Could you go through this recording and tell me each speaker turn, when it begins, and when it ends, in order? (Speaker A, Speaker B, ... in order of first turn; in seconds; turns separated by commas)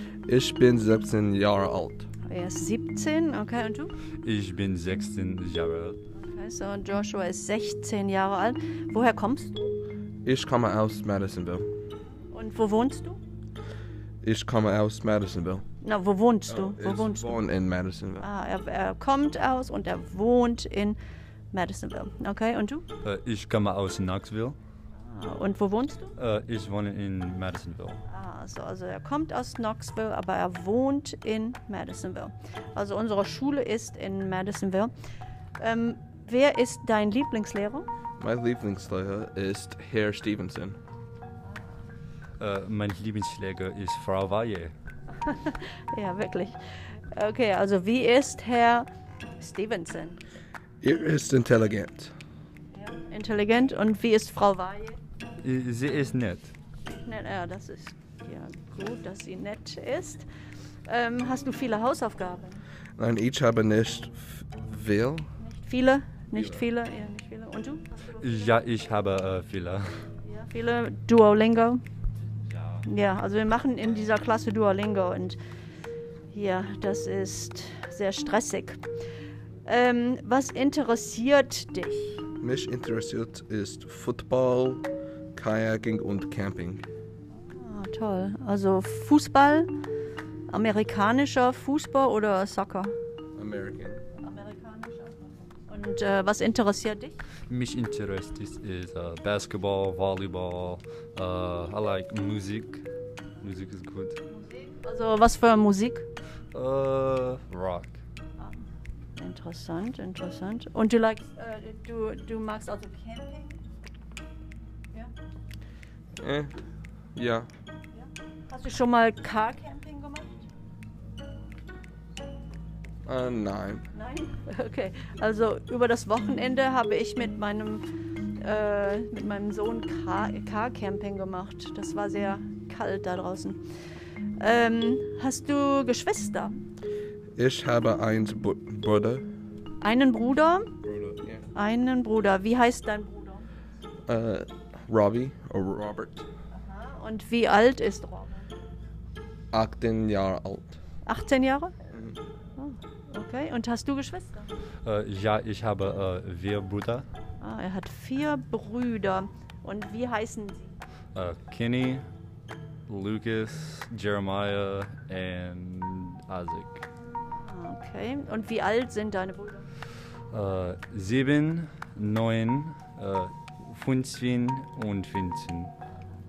Speaker A: 0.3-2.1, Speaker B: 2.3-3.9, Speaker C: 4.2-6.0, Speaker B: 6.2-9.8, Speaker A: 10.2-11.7, Speaker B: 12.3-13.2, Speaker A: 14.2-15.6, Speaker B: 15.8-17.4, Speaker A: 16.5-18.2, Speaker B: 18.2-21.0, Speaker B: 21.5-22.9, Speaker C: 23.0-24.6, Speaker B: 25.0-26.1, Speaker C: 26.2-28.0, Speaker B: 28.1-34.9, Speaker B: 35.6-37.9, Speaker A: 38.2-40.8, Speaker C: 42.4-44.7, Speaker B: 45.2-46.6, Speaker B: 47.1-48.9, Speaker B: 49.4-50.2, Speaker A: 50.8-52.1, Speaker B: 52.7-55.0, Speaker C: 55.4-56.5, Speaker B: 56.9-60.3, Speaker B: 60.9-62.6, Speaker A: 63.0-65.3, Speaker B: 65.4-68.5, Speaker C: 68.2-69.9, Speaker B: 70.2-71.8, Speaker B: 72.8-75.4, Speaker B: 76.3-78.8, Speaker B: 79.7-82.2, Speaker A: 82.4-86.8, Speaker B: 87.3-89.7, Speaker B: 90.5-93.0, Speaker A: 93.4-94.0, Speaker B: 94.2-97.2, Speaker C: 97.5-102.8, Speaker C: 103.4-104.2, Speaker B: 104.3-106.1, Speaker C: 106.5-108.0, Speaker B: 108.4-108.6, Speaker B: 109.2-113.6, Speaker A: 116.2-116.5, Speaker A: 117.1-117.5, Speaker B: 118.0-120.4, Speaker A: 123.1-123.9, Speaker B: 123.9-127.8, Speaker B: 128.4-133.6, Speaker B: 134.4-136.6, Speaker A: 137.4-139.3, Speaker B: 139.8-140.7, Speaker A: 140.8-141.5, Speaker B: 141.6-143.5, Speaker A: 144.1-146.2, Speaker B: 146.5-148.6, Speaker A: 149.5-150.8, Speaker B: 151.1-151.8, Speaker A: 151.9-152.2, Speaker B: 152.6-154.5, Speaker C: 154.8-157.1, Speaker B: 157.4-160.8, Speaker C: 161.2-162.1, Speaker C: 162.9-166.8, Speaker B: 167.2-169.7, Speaker C: 170.3-175.7